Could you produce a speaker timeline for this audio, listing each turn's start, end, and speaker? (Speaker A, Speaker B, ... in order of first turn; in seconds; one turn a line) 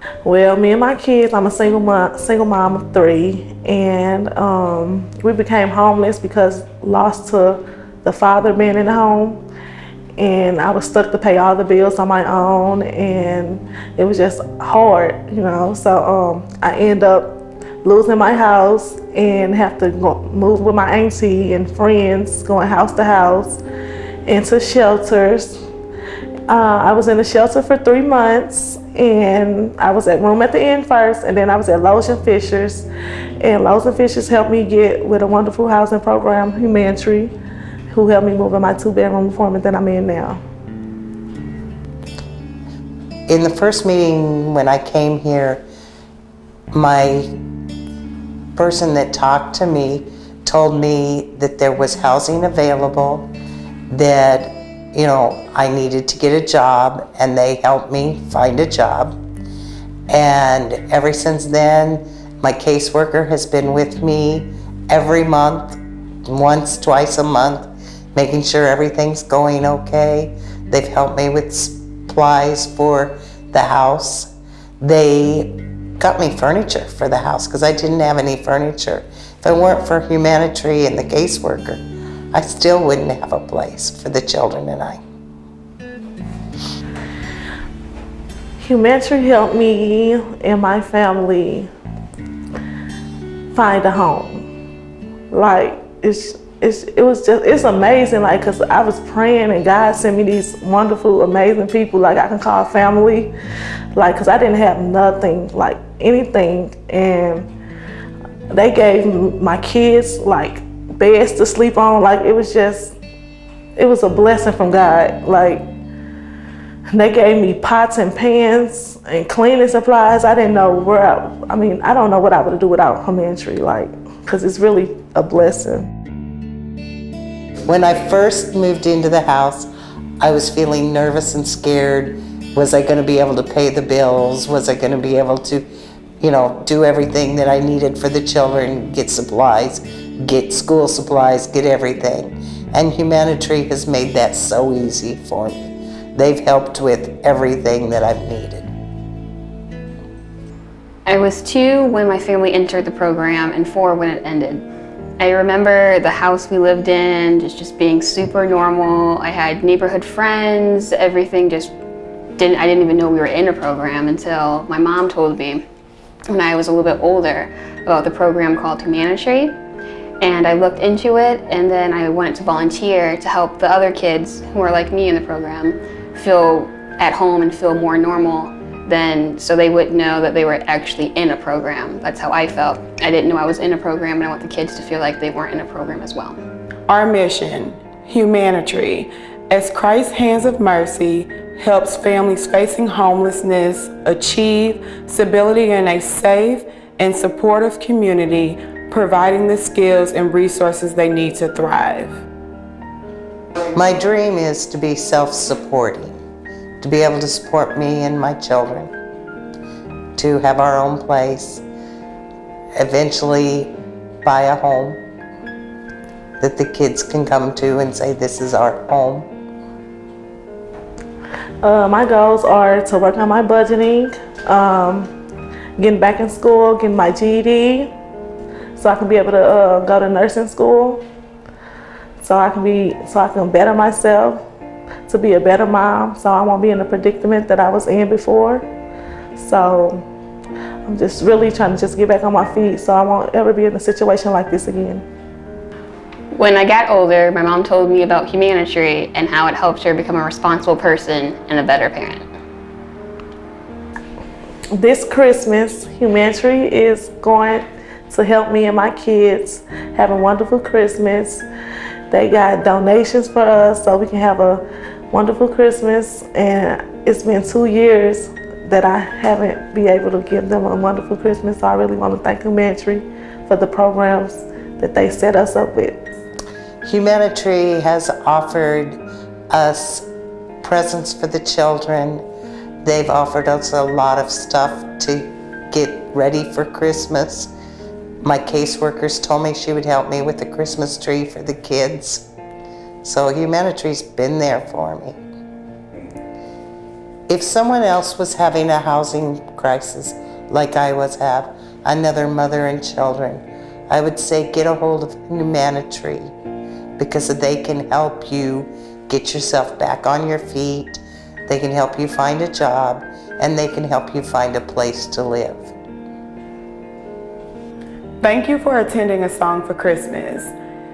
Speaker A: 0.2-9.4
Speaker A: 10.2-23.6
Speaker A: 24.2-25.6
Speaker A: 26.5-32.9
Speaker A: 33.4-37.3
Speaker A: 37.9-40.4
Speaker B: 43.3-45.6
Speaker B: 46.7-47.3
Speaker B: 48.5-53.3
Speaker B: 53.9-59.2
Speaker B: 60.1-81.8
Speaker B: 82.3-85.0
Speaker A: 88.6-91.7
Speaker A: 93.5-94.5
Speaker A: 95.3-103.3
Speaker A: 103.9-107.5
Speaker A: 108.5-113.0
Speaker A: 113.8-115.7
Speaker A: 116.9-125.9
Speaker B: 127.7-129.7
Speaker B: 130.2-135.7
Speaker B: 136.2-148.7
Speaker C: 151.1-154.6
Speaker C: 155.2-161.7
Speaker C: 162.4-165.6
Speaker C: 166.3-169.6
Speaker C: 170.2-186.4
Speaker D: 186.9-202.2
Speaker B: 203.7-206.2
Speaker B: 206.8-208.9
Speaker B: 210.2-211.6
Speaker B: 212.8-213.7
Speaker B: 214.2-215.0
Speaker B: 216.4-219.3
Speaker A: 221.6-225.1
Speaker A: 225.8-227.9
Speaker A: 228.8-231.0
Speaker A: 232.2-234.4
Speaker A: 235.1-238.6
Speaker A: 239.3-240.1
Speaker A: 240.9-245.0
Speaker C: 246.3-252.3
Speaker A: 254.7-261.4
Speaker A: 262.1-276.0
Speaker B: 276.8-280.1
Speaker B: 280.6-282.2
Speaker B: 282.8-287.5
Speaker B: 288.2-292.3
Speaker B: 293.0-295.2
Speaker B: 297.3-306.3
Speaker B: 307.0-315.7
Speaker D: 318.2-320.5